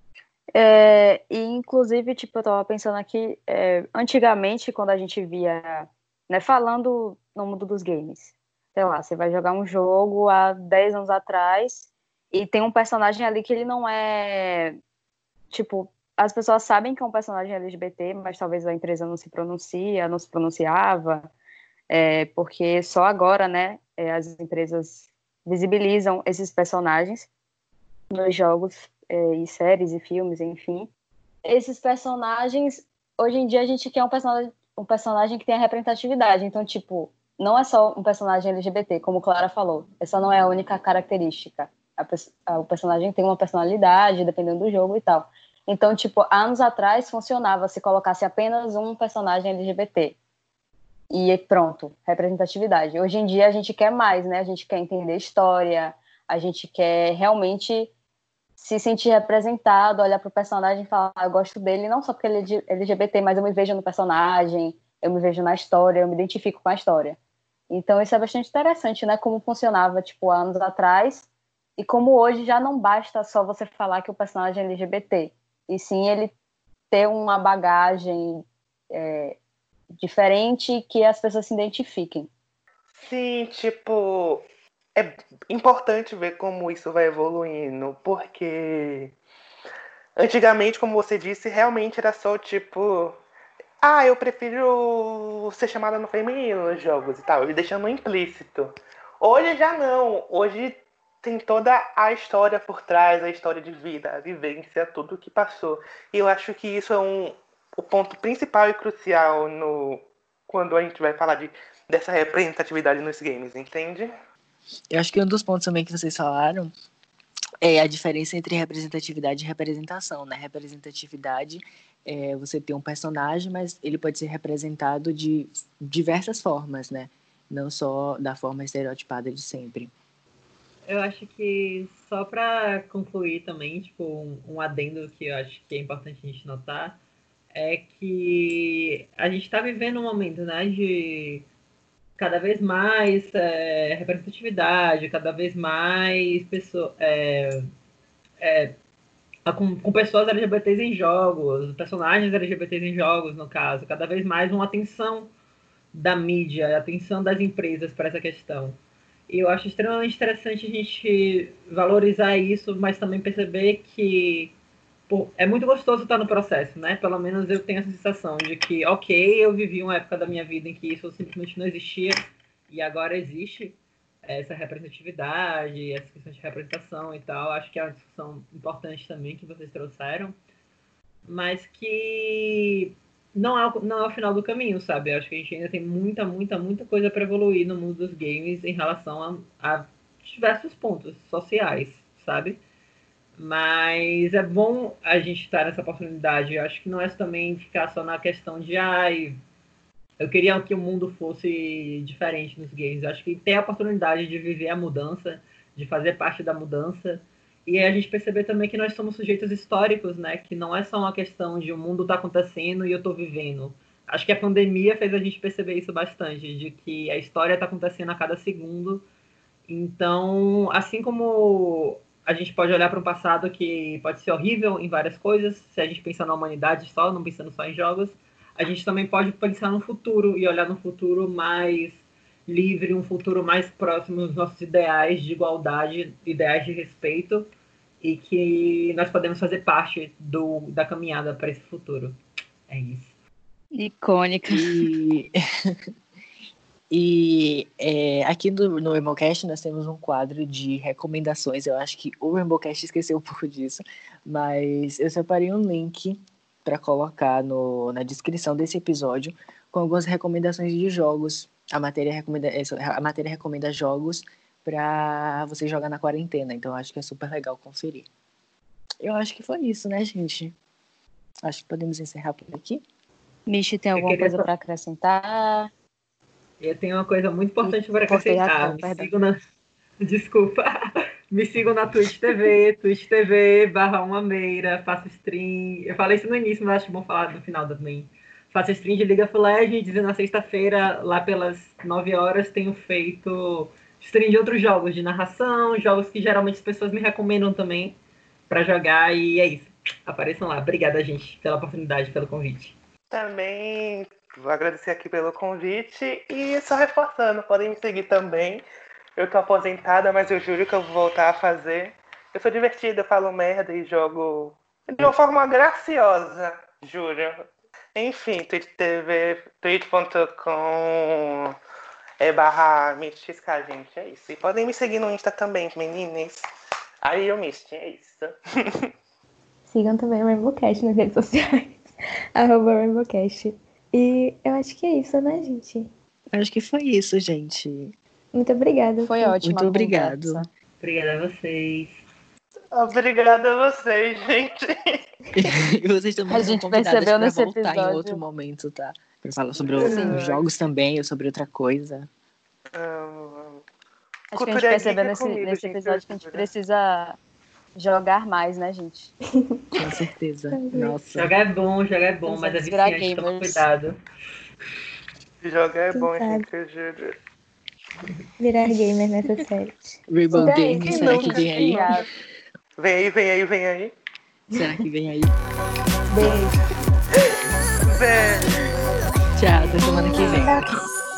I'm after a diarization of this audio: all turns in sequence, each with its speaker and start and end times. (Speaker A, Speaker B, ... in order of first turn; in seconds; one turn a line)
Speaker A: 0.5-14.8
Speaker A: 15.5-21.3
Speaker A: 21.9-27.3
Speaker A: 28.1-30.9
Speaker A: 31.4-50.1
Speaker A: 51.1-57.9
Speaker A: 58.6-67.2
Speaker A: 67.7-76.3
Speaker A: 76.9-79.4
Speaker A: 80.0-82.3
Speaker B: 83.0-89.1
Speaker B: 90.2-93.2
Speaker B: 93.8-114.1
Speaker C: 114.9-116.7
Speaker C: 117.6-129.9
Speaker D: 130.9-137.0
Speaker D: 137.5-141.4
Speaker D: 142.2-147.7
Speaker D: 148.4-148.8
Speaker D: 149.4-155.3
Speaker D: 155.9-158.8
Speaker D: 159.3-164.5
Speaker D: 165.1-180.4
Speaker D: 181.2-192.6
Speaker D: 193.4-199.4
Speaker D: 200.2-219.1
Speaker D: 219.7-237.5
Speaker D: 238.0-243.1
Speaker A: 243.7-244.9
Speaker C: 244.5-245.3
Speaker C: 246.9-268.1
Speaker C: 269.0-270.5
Speaker C: 271.4-272.8
Speaker A: 273.5-275.7
Speaker D: 273.9-274.5
Speaker D: 276.6-279.3
Speaker A: 277.6-279.1
Speaker D: 280.0-280.8
Speaker D: 281.3-298.0
Speaker D: 298.5-302.7
Speaker B: 303.1-308.6
Speaker B: 309.2-317.4
Speaker B: 317.9-321.5
Speaker B: 322.2-326.4
Speaker B: 327.0-328.9
Speaker E: 329.7-331.8
Speaker E: 332.3-335.9
Speaker C: 336.3-337.9
Speaker E: 338.3-339.3
Speaker A: 339.1-340.5
Speaker C: 339.4-340.4
Speaker D: 340.8-342.0
Speaker B: 342.7-345.0
Speaker C: 345.4-352.1
Speaker A: 346.3-348.2
Speaker B: 349.5-350.4
Speaker A: 349.8-350.4
Speaker B: 352.8-353.6
Speaker A: 354.3-357.2
Speaker B: 354.3-356.5
Speaker A: 357.8-359.1
Speaker C: 359.7-361.3
Speaker E: 360.5-361.0
Speaker D: 361.1-364.0
Speaker A: 362.3-363.6
Speaker B: 365.4-367.1
Speaker E: 365.9-366.4
Speaker E: 368.4-370.9
Speaker C: 370.1-372.0
Speaker A: 370.3-372.1
Speaker B: 370.8-372.1
Speaker B: 372.8-373.9
Speaker C: 374.5-375.3
Speaker E: 376.1-376.6
Speaker B: 377.9-378.7
Speaker C: 379.4-380.8